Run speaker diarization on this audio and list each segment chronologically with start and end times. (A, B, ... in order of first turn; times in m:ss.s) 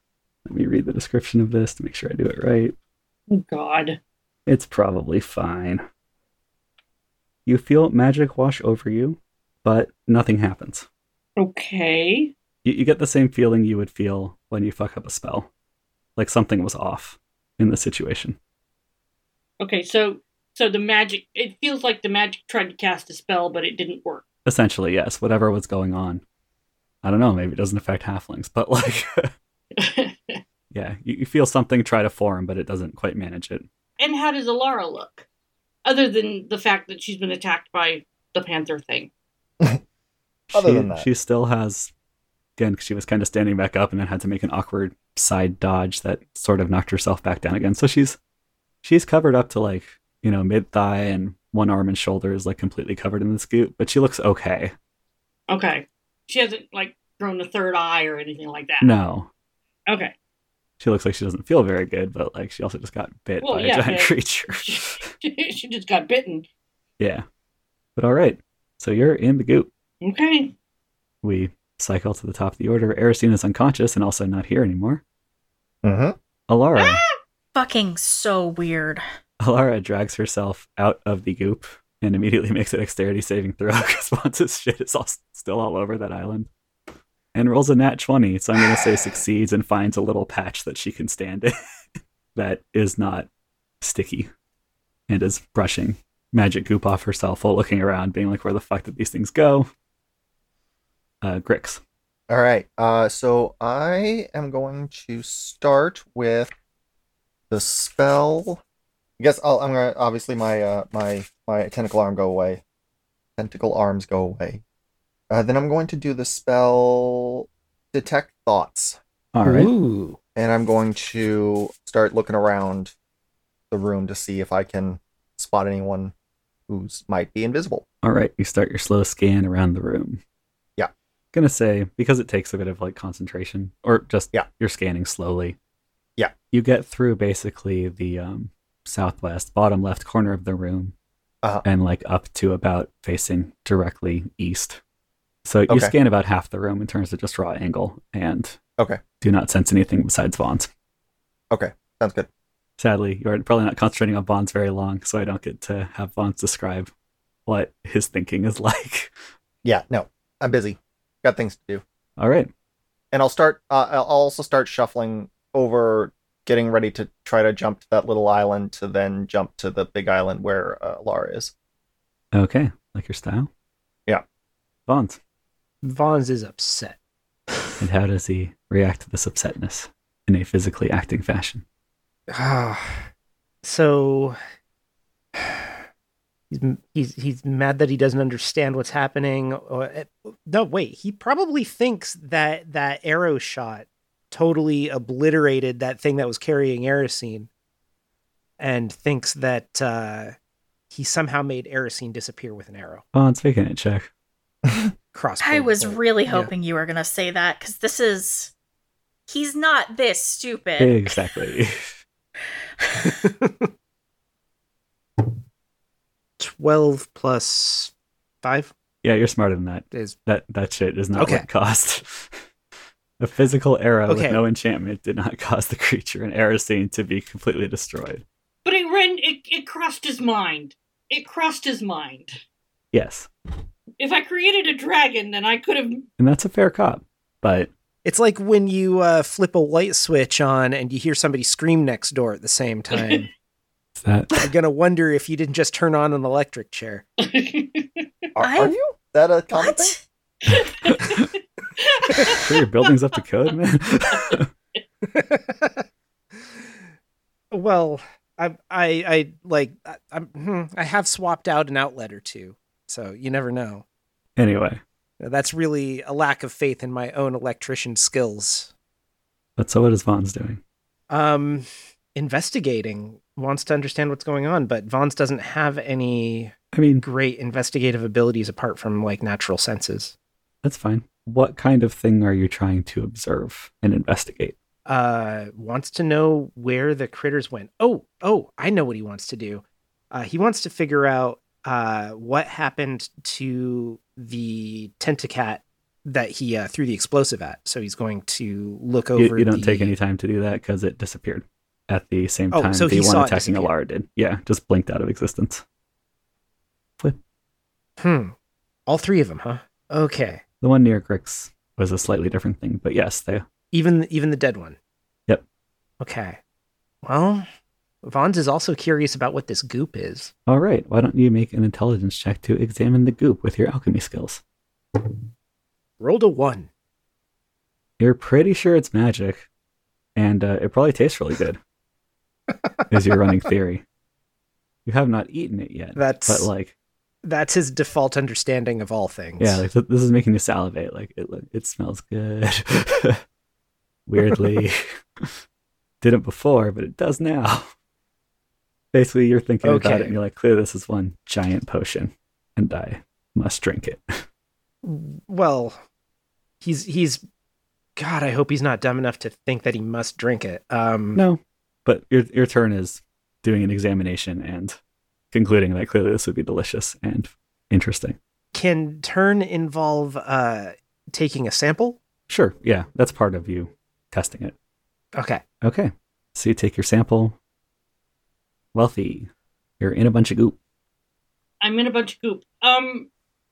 0:00.5-0:02.7 A
0:03.3-0:04.0 B
0:04.5-0:05.8 A
0:07.5-0:10.9 A
0:11.4-0:12.3 B
0:12.6-0:15.5 A
0:16.2-0:18.4 A
0:19.6-0:24.3 B
0:24.4-0:26.2 A
0:27.0-0:29.3 A
0:29.8-0:30.4 B
0:30.7-0:33.7 A
0:34.0-0:35.3 B
0:35.8-0:39.1 B
0:40.5-0:41.9 A
0:40.6-0:41.1 C
0:42.6-0:48.2 A
0:48.8-0:54.7 A
0:55.5-0:58.9 B
0:58.8-0:59.3 A
0:59.9-1:00.1 B
1:00.8-1:05.1 A
1:03.4-1:06.5 B
1:07.0-1:07.2 A
1:08.0-1:09.7 A
1:10.0-1:10.5 B
1:11.2-1:15.0 A
1:15.8-1:16.2 C
1:16.5-1:17.0 A
1:16.8-1:17.1 B
1:17.5-1:19.0 D
1:19.4-1:26.5 A
1:27.3-1:31.5 A
1:32.4-1:33.3 A
1:33.8-1:34.3 A
1:35.1-1:39.7 A
1:41.2-1:41.8 A
1:42.3-1:46.5 C
1:47.5-1:48.6 C
1:49.2-1:52.6 C
1:53.4-1:54.6 C
1:55.3-1:59.0 C
1:59.3-1:59.7 A
1:59.4-2:00.2 E
2:00.4-2:02.9 C
2:03.7-2:06.1 C
2:06.7-2:07.8 C
2:08.0-2:10.2 A
2:11.3-2:15.6 A
2:16.5-2:20.9 A
2:21.6-2:24.8 A
2:25.4-2:28.6 A
2:29.2-2:30.7 A
2:31.5-2:32.3 C
2:32.8-2:36.9 A
2:37.5-2:39.1 A
2:39.6-2:41.8 C
2:42.2-2:42.5 A
2:43.1-2:51.5 C
2:52.3-2:53.5 A
2:54.9-2:55.2 A
2:55.8-2:57.0 E
2:57.8-3:01.6 A
3:02.3-3:03.1 E
3:03.6-3:04.4 E
3:05.4-3:05.6 E
3:06.5-3:17.5 E
3:18.6-3:20.4 E
3:20.9-3:23.0 E
3:23.1-3:24.1 A
3:25.1-3:26.5 E
3:25.4-3:28.5 D
3:29.3-3:31.3 D
3:30.8-3:31.9 A
3:33.0-3:33.7 E
3:36.4-3:38.7 E
3:39.0-3:42.4 A
3:39.9-3:40.2 E
3:41.2-3:41.5 E
3:43.2-3:48.2 A
3:44.1-3:44.4 E
3:48.6-3:52.3 B
3:52.9-3:53.3 A
3:54.0-3:56.1 B
3:56.2-3:57.7 A
3:58.0-4:03.3 E
4:02.9-4:03.2 B
4:04.0-4:04.5 A
4:04.4-4:07.0 E
4:07.2-4:08.1 B
4:08.4-4:10.0 C
4:08.4-4:08.8 D
4:09.6-4:10.0 D
4:10.4-4:12.9 B
4:10.5-4:11.3 A
4:12.3-4:14.5 A
4:14.1-4:14.4 B
4:15.0-4:15.8 E
4:17.5-4:23.8 E
4:24.4-4:24.8 A
4:25.2-4:28.7 E
4:29.6-4:30.6 A
4:31.1-4:40.1 E
4:36.7-4:37.0 A
4:40.6-4:44.6 A
4:44.9-4:59.9 E
4:59.2-5:05.6 A
5:02.5-5:03.7 E
5:08.0-5:08.4 E
5:08.9-5:10.4 E
5:10.6-5:13.4 A
5:13.7-5:14.8 E
5:16.0-5:16.4 E
5:17.0-5:17.5 E
5:18.0-5:20.3 E
5:20.5-5:24.4 A
5:26.0-5:26.7 E
5:28.0-5:29.5 A
5:30.2-5:31.6 A
5:32.9-5:33.8 A
5:34.9-5:36.7 A
5:36.0-5:36.5 E
5:37.2-5:39.7 E
5:39.4-5:43.2 A
5:44.1-5:45.3 A
5:46.0-5:47.7 A
5:48.9-5:54.2 A
5:49.6-5:50.2 E
5:54.8-5:55.8 E
5:56.6-5:57.2 E
5:58.0-6:01.2 E
6:01.2-6:04.8 A
6:05.3-6:08.2 A
6:08.5-6:12.0 E
6:12.3-6:14.6 A
6:15.2-6:15.4 E
6:15.6-6:17.4 A
6:18.7-6:19.3 A
6:19.8-6:20.6 A
6:21.6-6:23.1 B